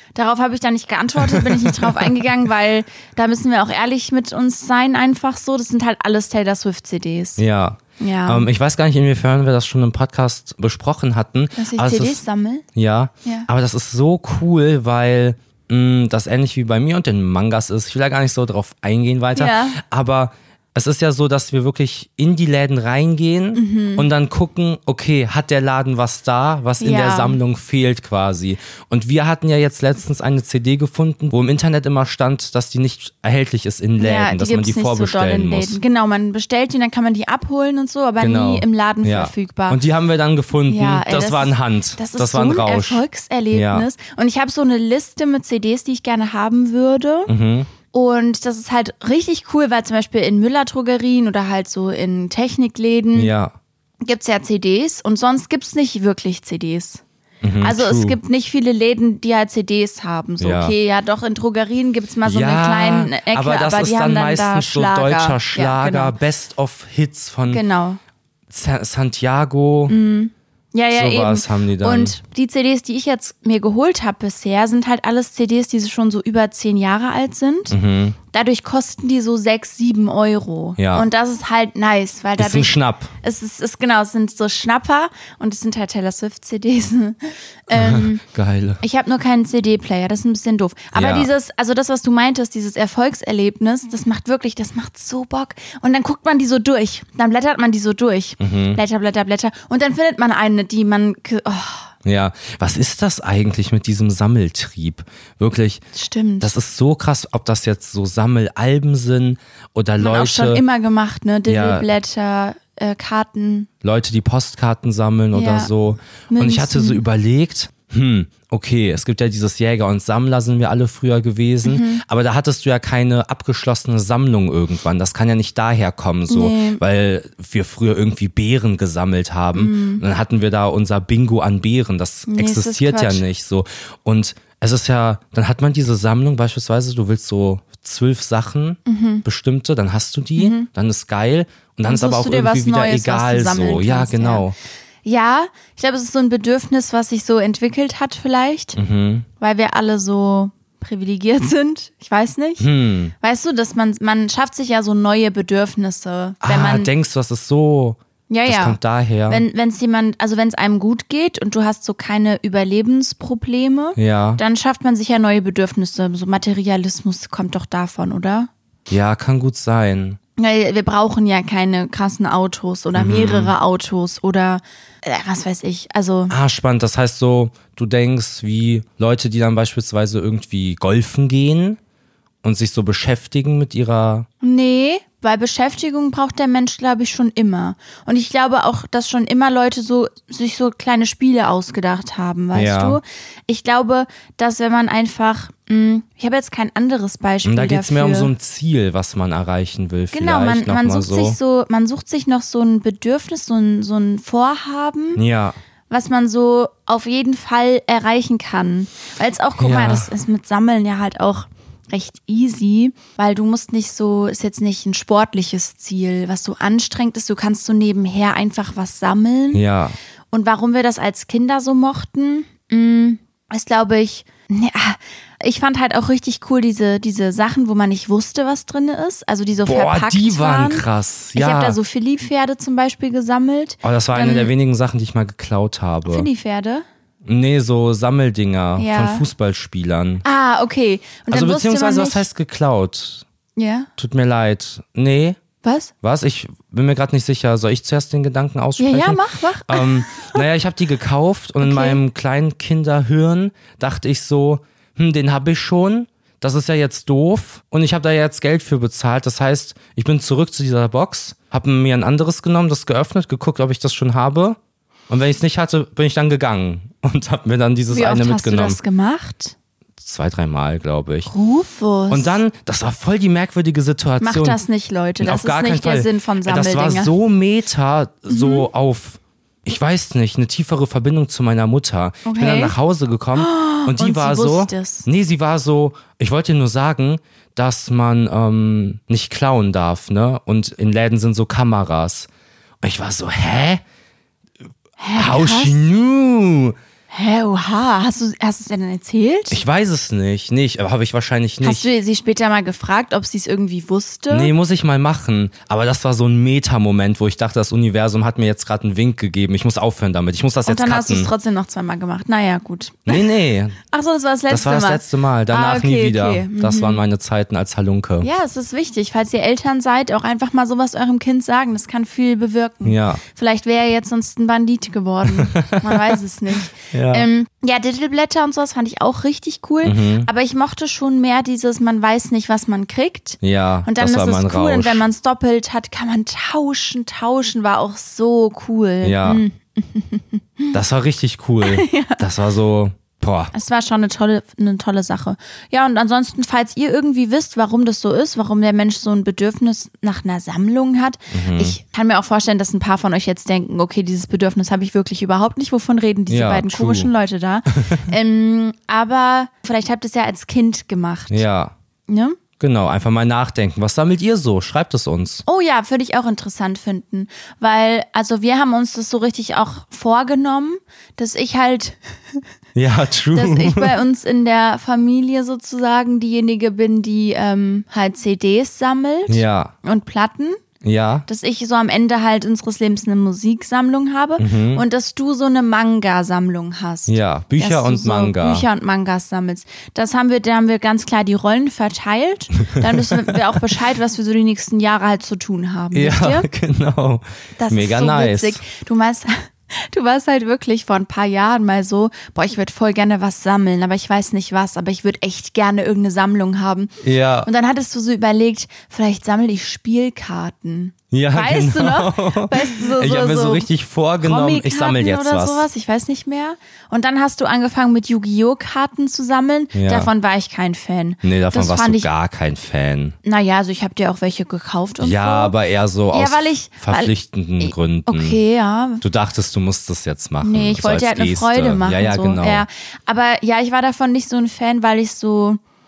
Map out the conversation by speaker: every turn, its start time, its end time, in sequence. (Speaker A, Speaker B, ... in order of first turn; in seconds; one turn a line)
Speaker A: 0.1-7.4
Speaker B: 1.2-2.1
Speaker B: 7.4-12.2
Speaker A: 8.0-8.5
Speaker A: 11.6-12.7
Speaker B: 12.8-35.8
Speaker A: 19.3-19.8
Speaker A: 23.5-24.1
Speaker A: 26.8-27.4
Speaker A: 34.0-39.8
Speaker B: 38.2-43.9
Speaker A: 40.7-47.3
Speaker B: 47.3-47.7
Speaker A: 47.9-53.3
Speaker B: 53.1-53.5
Speaker A: 54.0-57.0
Speaker B: 57.4-58.2
Speaker A: 57.6-66.2
Speaker B: 60.4-60.7
Speaker B: 62.2-67.6
Speaker A: 67.5-68.0
Speaker B: 68.5-70.0
Speaker A: 69.9-77.8
Speaker B: 70.9-72.2
Speaker B: 77.7-78.2
Speaker A: 78.3-88.2
Speaker B: 80.8-81.1
Speaker B: 82.4-83.1
Speaker B: 87.7-88.8
Speaker A: 88.8-101.9
Speaker B: 90.9-91.3
Speaker B: 98.4-98.8
Speaker B: 102.0-105.8
Speaker A: 105.9-106.5
Speaker B: 106.4-110.6
Speaker A: 110.0-113.7
Speaker B: 111.5-111.9
Speaker B: 113.8-144.5
Speaker A: 115.3-115.7
Speaker A: 116.3-117.0
Speaker A: 121.7-122.0
Speaker A: 126.3-126.8
Speaker A: 129.5-130.0
Speaker A: 132.3-133.2
Speaker A: 138.8-139.2
Speaker A: 140.3-140.7
Speaker A: 141.8-144.4
Speaker A: 145.0-148.8
Speaker B: 148.8-149.3
Speaker A: 149.4-152.7
Speaker B: 152.6-153.1
Speaker A: 153.2-156.9
Speaker B: 156.4-159.4
Speaker A: 158.3-168.5
Speaker B: 164.0-164.4
Speaker B: 168.9-170.2
Speaker A: 170.4-176.3
Speaker B: 172.9-173.5
Speaker B: 176.3-181.8
Speaker B: 182.4-184.3
Speaker A: 184.4-198.3
Speaker B: 192.5-193.0
Speaker B: 197.4-201.4
Speaker A: 200.1-205.2
Speaker B: 205.2-205.6
Speaker A: 205.9-219.6
Speaker B: 209.6-210.1
Speaker B: 219.5-220.0
Speaker A: 220.3-234.5
Speaker B: 229.7-231.8
Speaker B: 233.8-236.3
Speaker A: 236.1-236.8
Speaker B: 237.2-240.2
Speaker A: 238.8-239.3
Speaker A: 240.2-242.3
Speaker B: 241.3-243.2
Speaker A: 243.6-243.9
Speaker B: 244.0-245.4
Speaker A: 245.6-245.9
Speaker B: 246.0-264.6
Speaker A: 248.8-250.4
Speaker A: 251.6-252.0
Speaker B: 265.1-268.8
Speaker A: 267.9-269.5
Speaker B: 270.0-271.3
Speaker A: 271.3-272.4
Speaker B: 272.1-274.6
Speaker A: 274.2-277.1
Speaker B: 275.2-292.3
Speaker A: 278.3-278.7
Speaker A: 282.2-282.8
Speaker A: 283.4-285.1
Speaker B: 292.8-293.8
Speaker A: 295.0-295.8
Speaker B: 295.1-296.8
Speaker A: 297.1-299.6
Speaker B: 299.5-301.9
Speaker A: 301.6-304.5
Speaker B: 304.3-311.3
Speaker A: 310.6-313.3
Speaker B: 313.1-313.8
Speaker A: 313.9-317.0
Speaker B: 314.5-318.3
Speaker A: 318.2-340.8
Speaker B: 322.9-323.2
Speaker B: 325.3-326.2
Speaker B: 326.7-327.3
Speaker B: 329.8-330.3
Speaker B: 333.4-335.0
Speaker B: 339.0-339.4
Speaker B: 340.7-343.5
Speaker A: 341.6-342.2
Speaker A: 343.5-361.4
Speaker B: 351.3-351.8
Speaker B: 356.3-357.1
Speaker B: 357.7-358.0
Speaker B: 361.3-361.7
Speaker A: 362.1-362.4
Speaker B: 362.6-365.4
Speaker A: 365.4-372.4
Speaker B: 372.8-373.9
Speaker A: 373.3-380.6
Speaker B: 379.3-379.7
Speaker B: 380.8-381.2
Speaker A: 381.2-396.5
Speaker B: 384.4-384.8
Speaker B: 387.1-388.6
Speaker B: 392.8-393.4
Speaker B: 395.9-398.6
Speaker A: 397.6-413.7
Speaker B: 407.0-407.5
Speaker B: 411.1-415.6
Speaker A: 414.2-422.1
Speaker B: 419.7-420.1
Speaker B: 421.2-423.1
Speaker A: 423.2-425.5
Speaker B: 425.0-428.4
Speaker A: 426.1-429.0
Speaker B: 429.0-432.6
Speaker A: 430.4-435.6